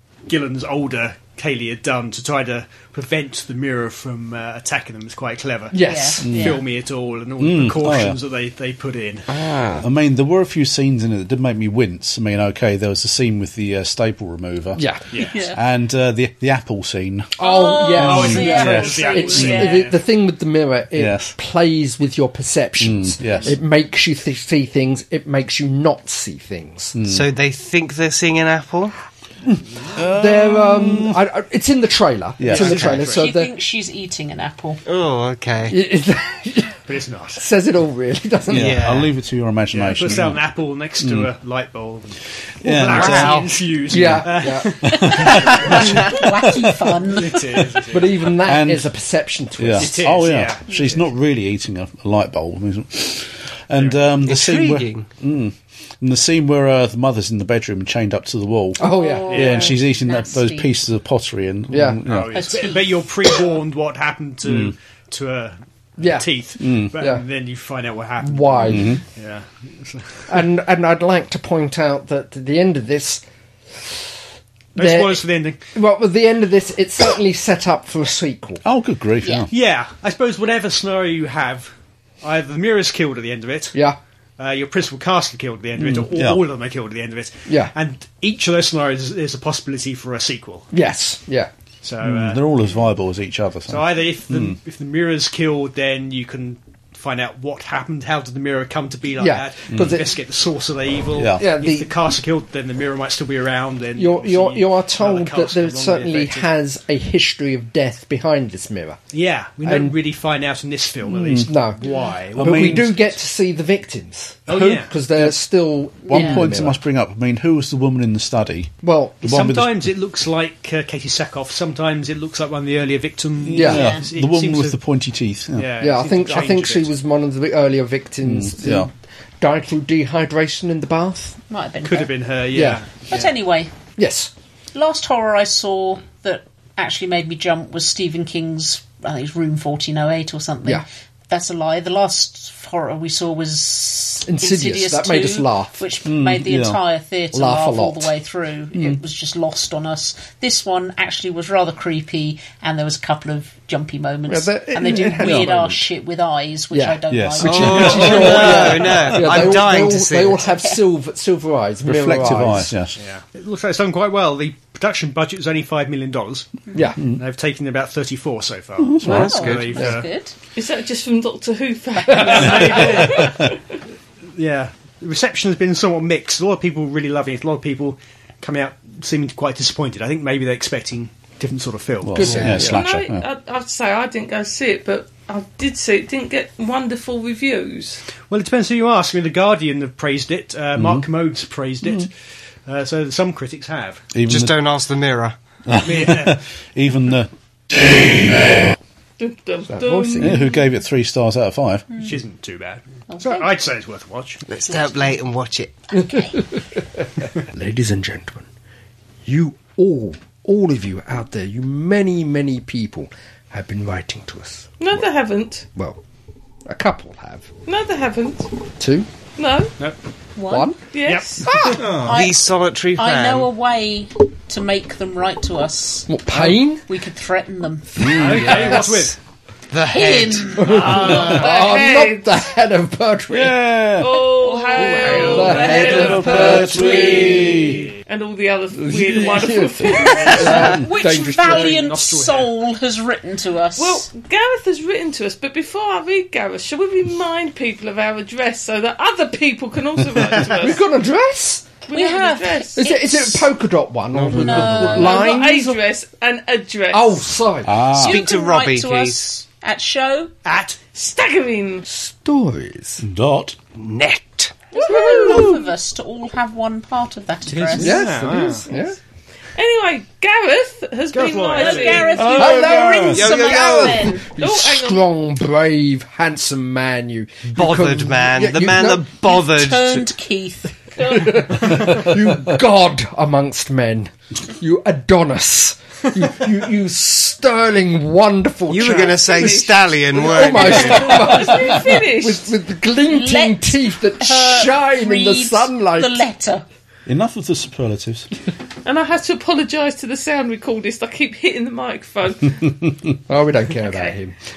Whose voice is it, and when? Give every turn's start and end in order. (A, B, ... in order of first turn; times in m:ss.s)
0:00.3-0:09.3 A
0:05.7-0:06.3 B
0:05.8-0:06.6 C
0:06.2-0:06.6 D
0:07.4-0:08.2 D
0:09.3-0:09.8 E
0:09.8-0:14.8 D
0:14.8-0:15.0 B
0:15.1-0:15.4 A
0:15.2-0:15.6 C
0:15.4-0:17.3 D
0:17.4-0:27.0 B
0:17.4-0:19.9 C
0:17.9-0:20.0 A
0:18.0-0:18.9 D
0:18.4-0:19.5 F
0:20.9-0:21.4 D
0:22.8-0:23.6 D
0:27.0-0:27.3 D
0:27.0-0:28.9 E
0:29.8-0:31.2 D
0:29.9-0:33.5 B
0:32.4-0:32.9 D
0:32.5-0:33.3 A
0:32.6-0:33.0 E
0:33.1-0:34.8 C
0:34.8-0:35.8 E
0:35.7-0:36.8 B
0:36.9-0:37.4 A
0:37.4-0:38.9 B
0:38.5-0:40.5 D
0:38.5-0:39.1 E
0:39.7-0:46.0 A
0:41.0-0:41.3 D
0:42.6-0:44.2 D
0:42.9-0:43.6 E
0:43.9-0:45.0 B
0:44.8-0:46.8 D
0:45.0-0:47.5 C
0:47.2-0:48.4 A
0:47.9-0:50.3 B
0:48.4-0:48.9 D
0:49.6-1:02.6 D
0:49.8-0:51.0 A
0:53.7-0:54.0 A
0:54.2-0:55.1 E
0:58.8-0:59.7 B
0:58.8-1:00.7 C
0:59.3-0:59.7 A
1:01.7-1:02.0 B
1:02.1-1:10.4 A
1:02.3-1:03.3 C
1:04.4-1:04.7 D
1:06.0-1:06.3 B
1:06.6-1:06.9 D
1:07.0-1:07.2 B
1:08.2-1:09.0 B
1:08.7-1:09.0 D
1:10.3-1:13.2 B
1:14.8-1:15.7 A
1:14.8-1:18.6 B
1:18.6-1:19.5 D
1:19.2-1:19.5 C
1:19.5-1:21.7 A
1:22.2-1:23.8 A
1:24.4-1:30.7 A
1:25.8-1:26.4 D
1:27.5-1:27.7 B
1:30.7-1:31.5 B
1:31.8-1:32.4 A
1:32.0-1:34.6 D
1:33.7-1:46.5 A
1:39.2-1:40.0 B
1:39.7-1:40.0 D
1:41.2-1:41.4 D
1:41.4-1:41.9 B
1:44.0-1:49.0 B
1:49.1-1:53.0 A
1:49.6-1:50.0 B
1:51.0-1:51.5 D
1:51.4-1:56.8 B
1:52.4-1:53.0 D
1:54.5-1:55.0 A
1:56.0-1:56.5 C
1:56.0-1:59.9 D
1:58.8-1:59.3 B
1:59.2-2:04.8 A
2:03.4-2:05.7 D
2:03.6-2:03.8 B
2:03.7-2:04.0 C
2:05.5-2:06.9 A
2:05.8-2:11.4 B
2:08.2-2:08.9 D
2:11.5-2:12.1 C
2:11.8-2:13.3 A
2:12.5-2:12.8 B
2:13.1-2:13.7 C
2:14.0-2:14.3 B
2:14.7-2:38.7 C
2:24.2-2:25.8 B
2:26.0-2:26.8 D
2:27.3-2:28.1 B
2:34.3-2:35.9 B
2:35.2-2:35.5 D
2:36.7-2:42.7 B
2:37.1-2:39.5 D
2:37.4-2:40.5 E
2:41.8-2:43.0 D
2:43.0-2:46.6 A
2:46.7-2:47.0 B
2:47.1-2:50.1 A
2:48.8-2:49.4 D
2:49.0-2:49.9 E
2:49.0-2:50.3 C
2:50.6-2:53.7 F
2:52.2-2:53.4 A
2:54.3-3:02.6 A
3:02.0-3:03.3 D
3:02.2-3:02.8 B
3:02.2-3:02.7 E
3:02.6-3:08.0 F
3:08.3-3:14.1 A
3:10.8-3:11.1 D
3:14.1-3:14.6 D
3:14.3-3:15.4 E
3:15.7-3:18.6 D
3:15.8-3:16.4 A
3:19.2-3:20.6 F
3:19.7-3:20.4 B
3:20.2-3:21.9 D
3:21.9-3:24.4 A
3:23.1-3:23.5 C
3:24.5-3:25.8 E
3:24.7-3:25.0 C
3:25.9-3:26.5 C
3:27.4-3:28.5 B
3:29.2-3:34.8 B
3:34.8-3:35.7 F
3:35.8-3:36.0 B
3:36.7-3:37.5 B
3:37.7-3:38.5 F
3:38.8-3:39.1 B
3:39.4-3:39.8 F
3:40.4-3:40.7 C
3:40.5-3:40.8 B
3:40.9-3:41.6 F
3:41.0-3:42.1 A
3:41.4-3:42.0 B
3:41.9-3:48.2 C
3:42.0-3:43.5 E
3:46.1-3:46.8 B
3:48.0-3:48.9 B
3:48.0-3:48.6 D
3:48.0-3:49.2 A
3:49.7-3:51.1 E
3:49.8-3:50.9 C
3:50.6-3:53.6 B
3:50.7-3:51.2 A
3:50.8-3:52.4 F
3:53.3-3:54.2 D
3:54.0-4:00.8 F
3:54.1-3:55.6 C
3:55.0-3:57.6 B
3:55.0-3:55.6 A
3:55.3-3:57.9 D
3:58.7-4:01.8 B
4:00.2-4:00.6 A
4:00.4-4:04.1 C
4:01.2-4:02.5 A
4:03.8-4:10.8 F
4:10.2-4:10.8 A
4:10.5-4:11.8 B
4:11.9-4:13.0 F
4:11.9-4:13.5 C
4:12.8-4:15.8 B
4:14.1-4:15.2 E
4:14.3-4:15.3 C
4:14.8-4:17.3 F
4:16.9-4:17.8 B
4:17.6-4:18.2 D
4:17.9-4:19.3 E
4:18.0-4:20.3 C
4:20.4-4:20.8 A
4:20.9-4:21.9 F
4:21.9-4:23.0 B
4:23.0-4:23.6 D
4:23.7-4:24.6 E
4:24.7-4:28.1 C
4:24.8-4:25.6 F
4:24.8-4:25.3 B
4:27.5-4:28.6 A
4:27.8-4:29.0 B
4:29.6-4:32.8 F
4:31.1-4:32.4 A
4:31.6-4:34.3 C
4:32.3-4:39.1 B
4:32.5-4:33.2 D
4:33.1-4:34.1 E
4:34.3-4:35.1 F
4:37.5-4:40.2 E
4:39.2-4:41.6 C
4:41.0-4:56.2 B
4:48.7-4:51.2 E
4:48.8-4:49.1 A
4:48.9-4:52.5 F
4:53.1-4:56.6 C
4:57.1-4:58.3 D
4:58.8-5:02.8 F
5:03.3-5:04.4 B
5:03.8-5:04.1 F